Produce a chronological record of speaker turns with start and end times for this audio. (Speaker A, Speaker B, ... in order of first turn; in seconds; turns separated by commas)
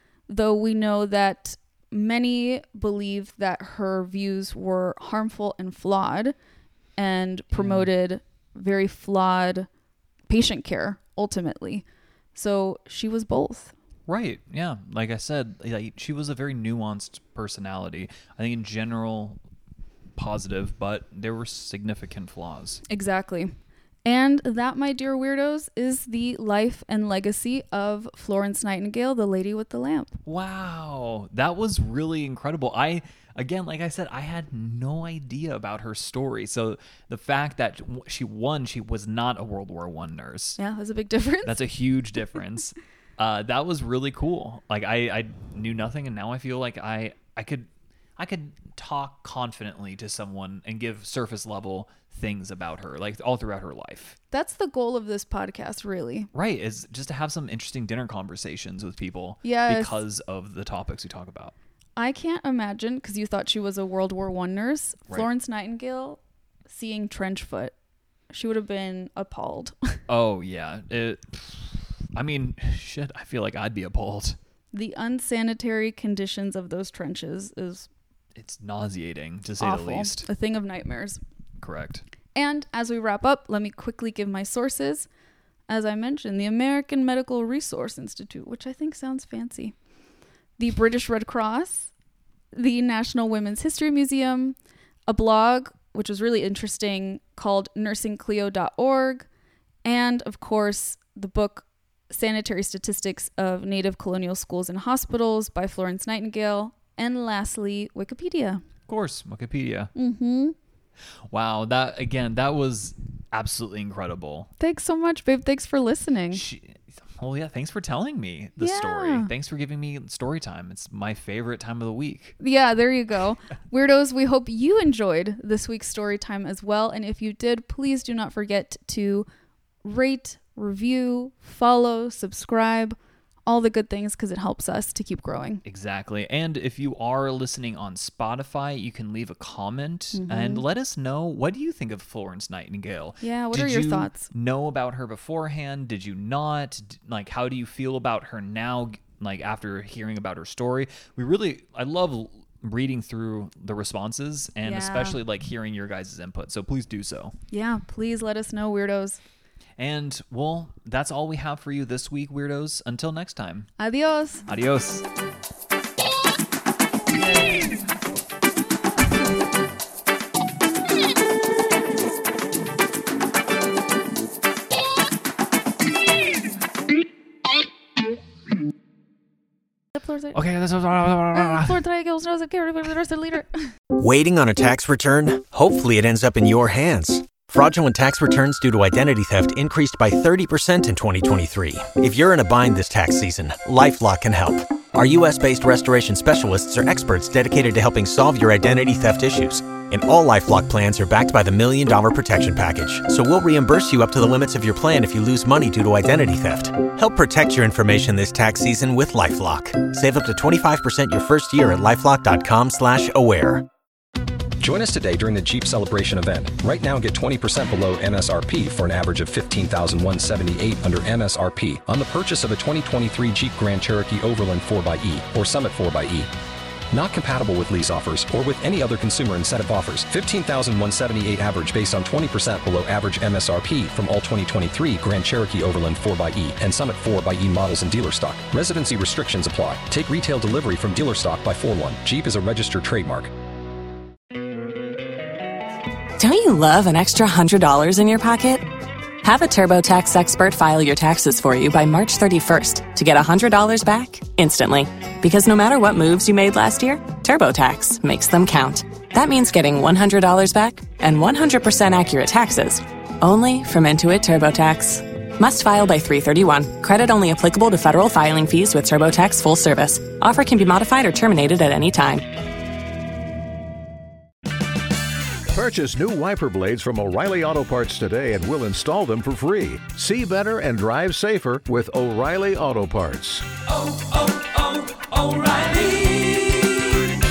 Speaker A: 0.3-6.3, Speaker A: 7.0-9.7, Speaker B: 7.5-7.9, Speaker A: 10.3-13.7, Speaker B: 14.1-19.4, Speaker B: 20.1-22.8, Speaker A: 22.9-30.2, Speaker B: 30.2-40.6, Speaker A: 40.6-41.6, Speaker B: 41.4-54.2, Speaker A: 54.3-56.3, Speaker B: 56.3-61.5, Speaker A: 59.4-60.0, Speaker A: 62.0-67.7, Speaker A: 68.3-70.0, Speaker B: 70.1-74.4, Speaker A: 74.7-77.9, Speaker B: 78.3-80.3, Speaker A: 79.6-81.2, Speaker B: 81.6-82.0, Speaker A: 82.3-85.1, Speaker A: 85.7-89.7, Speaker A: 90.6-91.9, Speaker A: 92.5-99.3, Speaker A: 99.8-108.6, Speaker B: 108.9-109.9, Speaker A: 109.9-110.5, Speaker B: 111.3-114.5, Speaker A: 114.6-116.4, Speaker B: 116.3-122.3, Speaker A: 118.6-119.3, Speaker A: 122.4-129.3, Speaker A: 129.8-135.6, Speaker B: 135.6-157.3, Speaker A: 140.1-140.6, Speaker A: 143.2-144.3, Speaker A: 154.6-155.2, Speaker A: 157.5-159.2, Speaker B: 159.8-163.7, Speaker A: 163.8-164.5, Speaker B: 164.5-165.0, Speaker B: 167.3-167.7, Speaker A: 179.9-180.4, Speaker B: 180.3-181.8, Speaker A: 181.3-183.7, Speaker C: 183.9-213.7, Speaker D: 214.6-226.3, Speaker D: 226.9-243.3, Speaker E: 246.2-248.7, Speaker E: 249.2-272.3, Speaker F: 275.5-286.9